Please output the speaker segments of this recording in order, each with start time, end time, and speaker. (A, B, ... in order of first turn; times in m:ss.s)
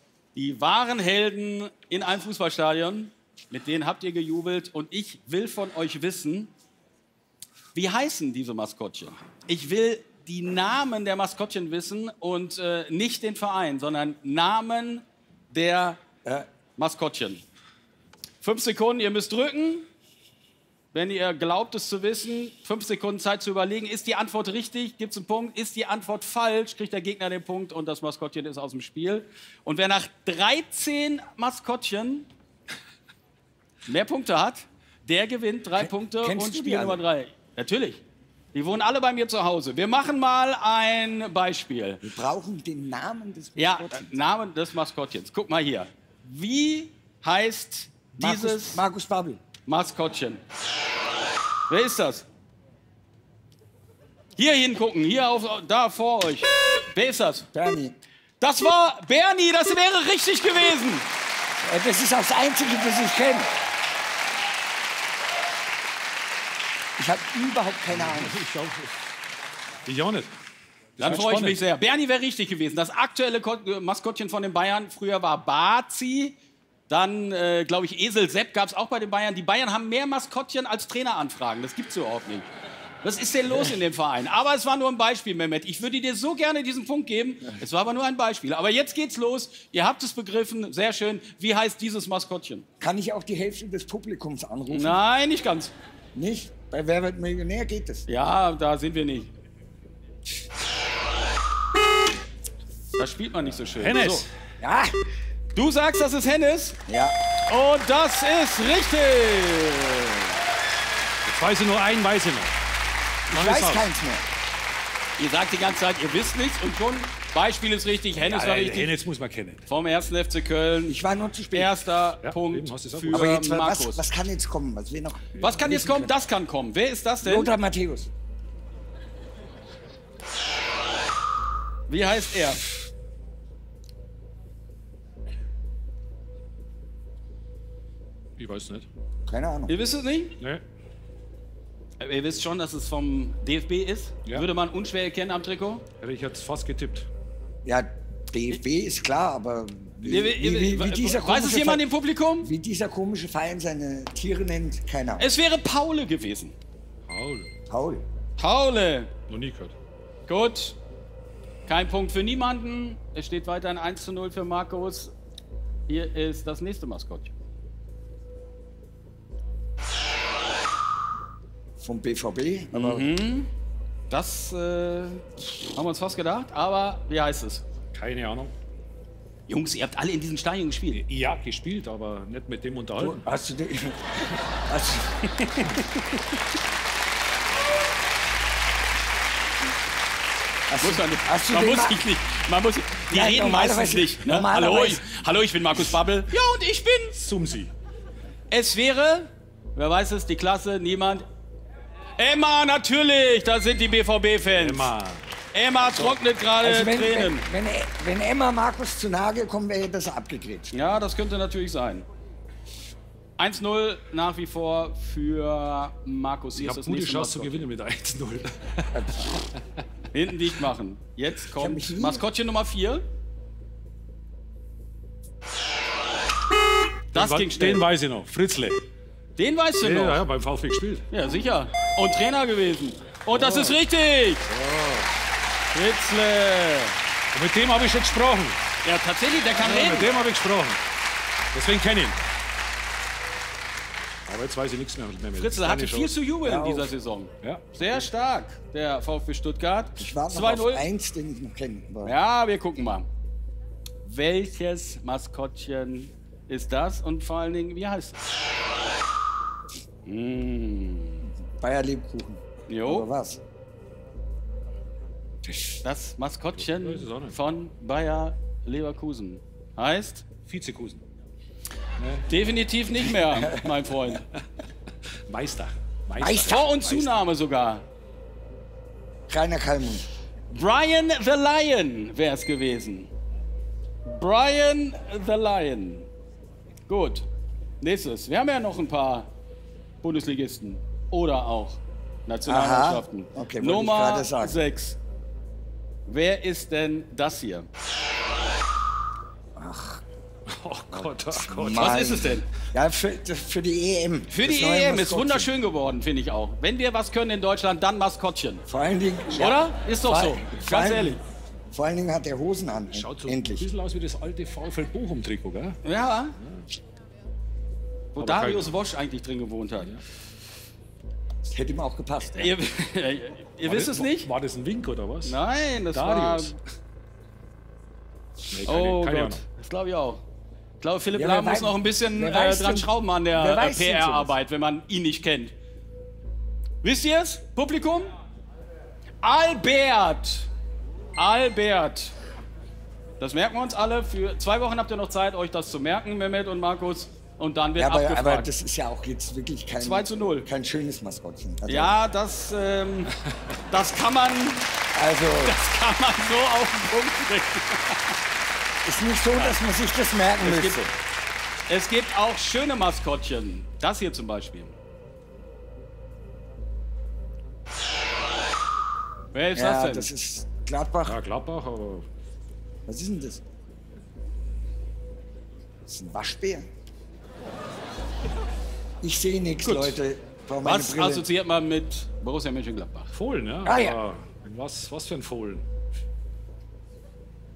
0:00.3-0:06.5 A
0:07.7-0:16.0 A
0:16.8-0:17.4 A
0:18.4-0:19.9 A
0:20.9-0:32.3 A
0:33.8-0:38.0 A
0:35.8-0:37.0 B
0:38.5-0:42.0 A
0:42.0-0:44.2 B
0:43.6-0:48.8 A
0:48.2-0:49.4 B
0:49.6-0:50.4 A
0:51.7-0:52.2 A
0:54.4-0:57.5 A
0:57.5-0:58.0 B
0:58.4-1:01.0 A
1:01.6-1:03.5 B
1:07.0-1:08.4 B
1:07.9-1:08.9 C
1:09.8-1:10.3 C
1:11.0-1:11.6 C
1:11.0-1:16.4 A
1:16.9-1:22.5 A
1:23.0-1:32.6 A
1:32.8-1:35.0 B
1:34.7-1:35.7 A
1:36.1-1:38.0 B
1:38.0-1:39.3 A
1:43.0-1:44.2 A
1:43.6-1:44.3 C
1:44.6-1:44.9 B
1:45.5-1:46.8 A
1:46.9-1:47.2 B
1:47.5-1:50.3 A
1:51.2-1:52.5 C
1:53.3-1:53.9 C
1:53.3-1:54.2 B
1:55.2-1:58.9 A
1:58.2-1:59.6 C
1:59.7-2:01.0 A
2:00.8-2:01.7 B
2:01.5-2:04.0 A
2:02.2-2:03.4 C
2:03.1-2:06.1 B
2:05.4-2:07.5 A
2:07.2-2:08.1 B
2:11.9-2:12.6 A
2:18.4-2:18.9 C
2:19.2-2:19.7 B
2:19.7-2:20.4 A
2:22.0-2:25.8 A
2:26.0-2:27.1 C
2:27.6-2:31.8 B
2:30.0-2:32.5 A
2:32.4-2:35.3 B
2:35.2-2:36.5 A
2:37.1-2:37.5 C
2:37.7-2:38.0 B
2:38.4-2:39.1 A
2:39.3-2:39.7 C
2:40.3-2:40.8 A
2:41.6-2:45.1 A
2:45.9-2:47.3 A
2:51.8-2:53.1 B
2:52.7-2:53.5 A
2:54.1-2:57.6 A
2:57.9-2:58.5 C
2:59.5-3:01.0 A
3:00.9-3:03.2 C
3:03.0-3:05.4 B
3:05.4-3:05.9 A
3:10.7-3:12.0 B
3:10.8-3:17.3 A
3:13.1-3:15.0 B
3:17.2-3:17.7 C
3:18.5-3:21.2 A
3:22.2-3:24.9 A
3:24.5-3:25.2 C
3:25.5-3:27.5 A
3:26.0-3:30.7 B
3:30.7-3:32.0 A
3:33.4-3:37.6 A
3:36.6-3:39.5 C
3:38.9-3:39.3 B
3:40.1-3:43.0 A
3:41.6-3:42.2 B
3:47.1-3:47.8 A
3:47.1-3:48.8 C
3:49.4-3:50.2 A
3:49.8-3:51.0 C
3:51.1-3:54.5 A
3:53.3-3:53.8 C
3:54.5-3:55.1 C
3:55.7-3:57.0 A
3:57.3-3:58.6 C
3:58.8-4:00.1 A
3:59.5-4:00.8 C
4:01.5-4:02.2 C
4:04.2-4:06.1 C
4:05.3-4:10.8 A
4:06.4-4:06.9 B
4:07.4-4:07.7 C
4:10.0-4:12.1 B
4:12.0-4:13.0 A
4:14.0-4:18.2 A
4:20.0-4:21.2 A
4:21.6-4:23.4 B
4:22.7-4:23.0 A
4:25.4-4:25.8 B
4:25.8-4:30.2 A
4:26.6-4:27.4 C
4:30.5-4:31.0 C
4:32.0-4:32.2 C
4:32.3-4:34.2 A
4:33.3-4:33.7 B
4:35.3-4:37.1 C
4:36.2-4:36.6 B
4:36.4-4:37.8 A
4:39.3-4:40.1 B
4:40.5-4:43.1 A
4:44.0-4:46.1 A
4:46.9-4:47.2 A
4:47.8-4:49.3 A
4:50.0-4:55.0 A
4:52.4-4:54.6 B
4:56.1-4:57.7 A
4:59.6-5:00.0 B
5:00.5-5:02.1 C
5:00.9-5:05.5 B
5:01.7-5:02.4 A
5:04.3-5:08.6 A
5:08.7-5:11.2 B
5:09.3-5:11.2 A
5:11.7-5:13.7 B
5:12.9-5:15.8 C
5:15.8-5:16.3 A
5:16.4-5:16.7 C
5:18.1-5:19.9 A
5:18.2-5:18.8 C
5:21.5-5:22.6 B
5:22.3-5:24.3 A
5:23.6-5:25.4 C
5:25.2-5:26.6 A
5:25.9-5:26.6 C
5:28.5-5:29.4 C
5:28.6-5:30.2 A
5:30.8-5:35.5 A
5:31.1-5:34.3 B
5:36.8-5:38.1 A
5:39.2-5:40.5 A
5:41.2-5:42.1 A
5:43.2-5:48.5 A
5:47.8-5:52.0 B
5:49.8-5:50.5 A
5:51.7-5:53.1 A
5:53.7-5:54.6 A
5:54.9-5:55.5 B
5:55.4-5:58.2 A
5:58.8-6:00.8 B
6:00.4-6:00.9 A
6:01.7-6:04.8 A
6:09.3-6:10.1 A
6:09.5-6:11.2 B
6:11.0-6:12.0 C
6:12.9-6:13.4 B
6:15.9-6:16.6 B
6:19.0-6:21.2 B
6:19.6-6:20.0 A
6:20.6-6:23.1 A
6:23.1-6:25.6 C
6:23.6-6:24.0 B